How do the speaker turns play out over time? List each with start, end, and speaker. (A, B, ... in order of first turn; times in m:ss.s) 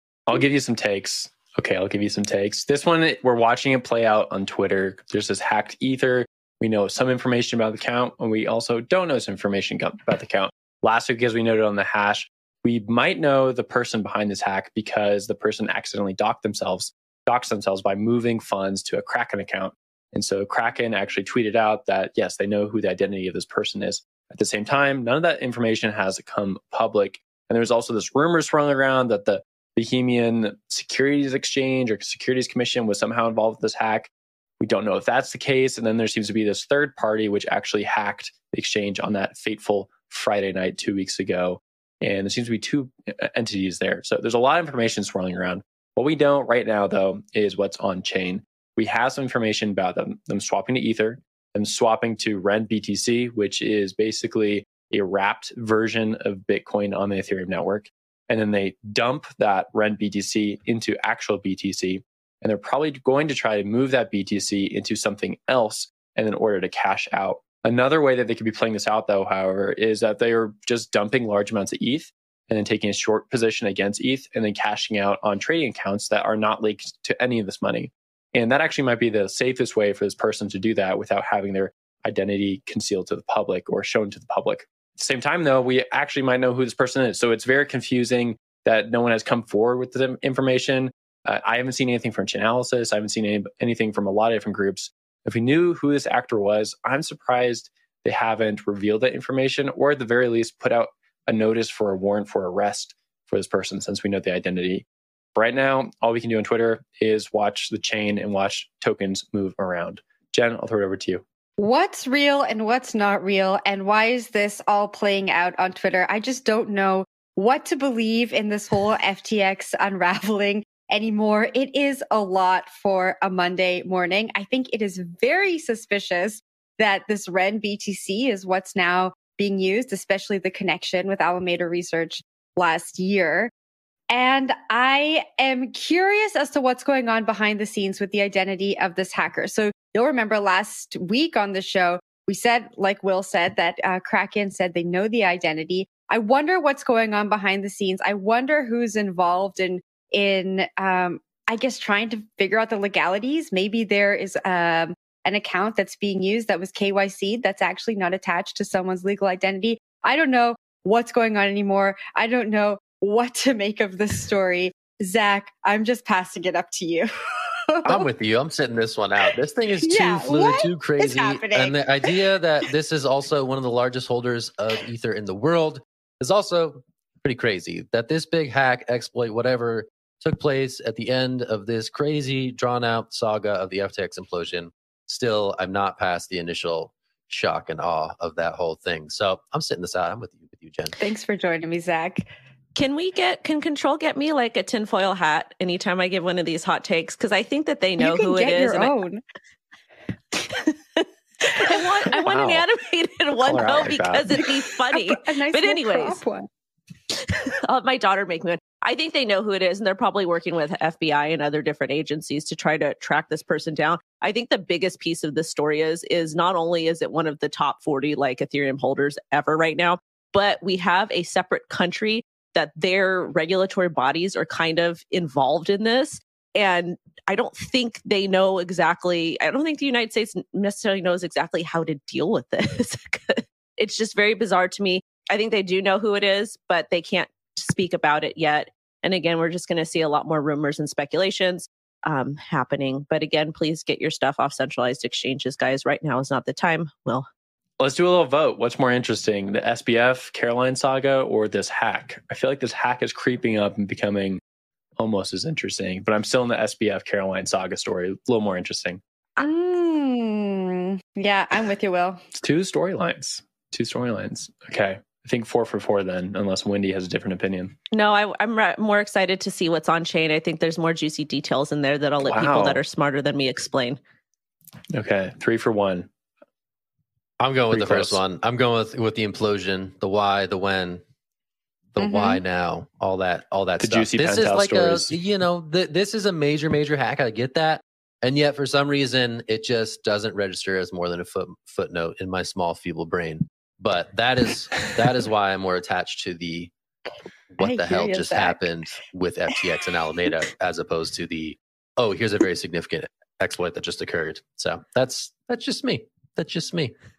0:00.3-1:51.2 A
1:51.6-2:13.5 B
2:14.1-2:47.1 B
2:47.7-2:48.1 B
2:47.8-3:11.0 C
2:49.8-2:52.2 B
3:11.0-3:12.3 B
3:12.8-3:18.9 D
3:18.0-3:19.2 B
3:20.6-3:26.2 D
3:21.6-3:21.8 B
3:22.1-3:22.7 A
3:23.4-3:24.5 A
3:24.9-3:26.5 B
3:27.2-4:07.3 D
4:07.8-4:14.4 A
4:15.0-4:19.0 A
4:19.4-4:22.2 B
4:22.4-4:27.8 A
4:27.9-4:34.0 D
4:32.2-4:32.8 A
4:34.9-4:36.1 A
4:37.4-4:41.0 C
4:37.7-4:38.2 A
4:41.9-4:56.7 C
4:42.0-4:42.4 B
4:43.8-4:45.1 A
4:57.5-5:06.9 C
4:57.6-4:58.7 B